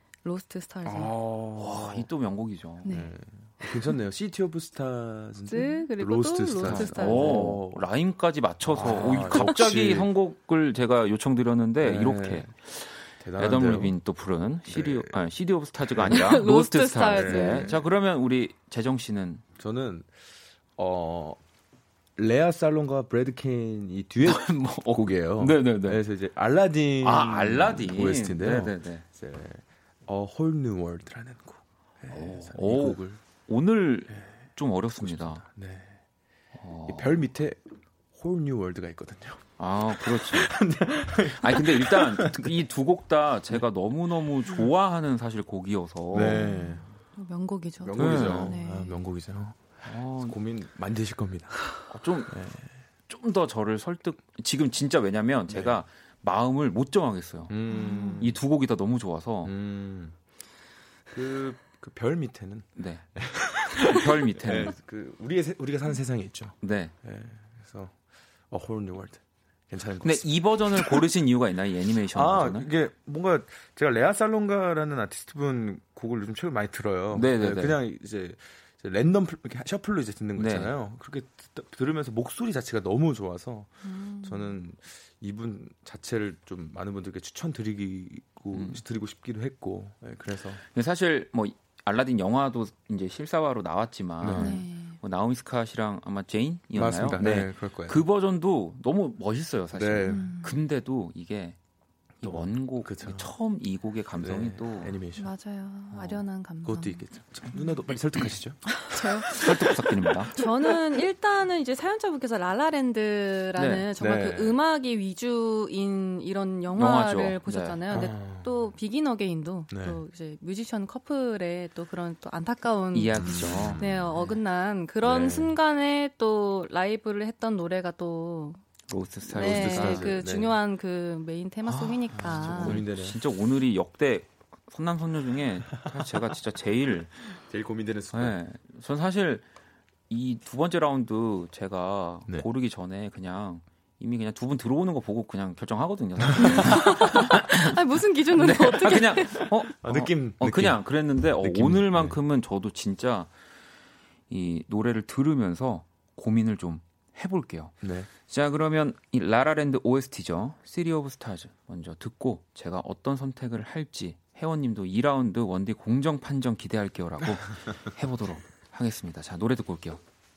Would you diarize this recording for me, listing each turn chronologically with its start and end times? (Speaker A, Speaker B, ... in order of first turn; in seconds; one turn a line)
Speaker A: 0.2-1.1
Speaker B: 0.8-2.1
Speaker C: 1.6-3.0
Speaker A: 2.8-3.8
Speaker B: 2.9-7.9
Speaker A: 5.5-7.6
Speaker C: 6.6-19.4
Speaker B: 8.6-10.1
Speaker B: 11.8-12.6
Speaker B: 13.2-14.0
Speaker B: 14.7-15.2
Speaker B: 15.9-16.3
Speaker A: 16.1-17.8
Speaker B: 17.0-17.8
Speaker B: 19.6-21.4
Speaker B: 22.2-33.2
Speaker C: 24.2-26.0
Speaker C: 27.0-29.1
Speaker C: 32.1-35.4
Speaker B: 34.1-36.0
Speaker C: 36.5-37.1
Speaker B: 36.9-37.6
Speaker B: 38.1-42.7
Speaker C: 39.6-40.5
Speaker C: 41.3-46.4
Speaker B: 46.1-47.0
Speaker A: 46.2-49.1
Speaker B: 47.8-51.6
Speaker C: 48.0-48.6
Speaker C: 49.8-50.4
Speaker C: 51.9-52.3
Speaker B: 52.3-52.8
Speaker C: 53.1-57.5
Speaker B: 55.5-55.8
Speaker B: 57.5-58.4
Speaker A: 57.7-58.3
Speaker C: 58.2-59.5
Speaker B: 59.4-60.2
Speaker B: 61.1-71.1
Speaker C: 62.8-63.2
Speaker C: 63.9-64.7
Speaker C: 66.6-66.9
Speaker C: 70.0-72.7
Speaker B: 72.1-90.6
Speaker C: 77.1-77.8
Speaker C: 80.4-80.7
Speaker A: 83.8-84.6
Speaker C: 88.5-88.8
Speaker C: 90.7-101.6
Speaker B: 94.2-94.7
Speaker A: 94.3-95.0
Speaker B: 96.7-98.0
Speaker B: 99.7-100.4
Speaker A: 100.1-100.6
Speaker B: 102.2-103.3
Speaker C: 102.2-105.0
Speaker B: 104.2-105.3
Speaker A: 105.2-107.7
Speaker C: 105.9-106.2
Speaker B: 106.6-109.4
Speaker A: 108.2-109.8
Speaker C: 109.4-110.3
Speaker B: 110.4-111.0
Speaker A: 110.4-128.6
Speaker C: 113.5-113.9
Speaker B: 114.0-114.6
Speaker C: 116.8-117.8
Speaker B: 117.9-118.7
Speaker B: 119.7-120.0
Speaker C: 122.9-124.3
Speaker B: 123.1-124.4
Speaker B: 125.0-125.6
Speaker C: 128.9-130.2
Speaker A: 129.3-132.8
Speaker B: 129.3-130.6
Speaker C: 131.7-137.2
Speaker B: 132.2-133.2
Speaker B: 137.3-138.4
Speaker C: 138.1-139.4
Speaker C: 140.1-147.7
Speaker B: 146.3-146.8
Speaker A: 146.4-149.6
Speaker C: 148.3-153.3
Speaker B: 149.8-152.2
Speaker C: 154.3-170.0
Speaker B: 157.8-158.1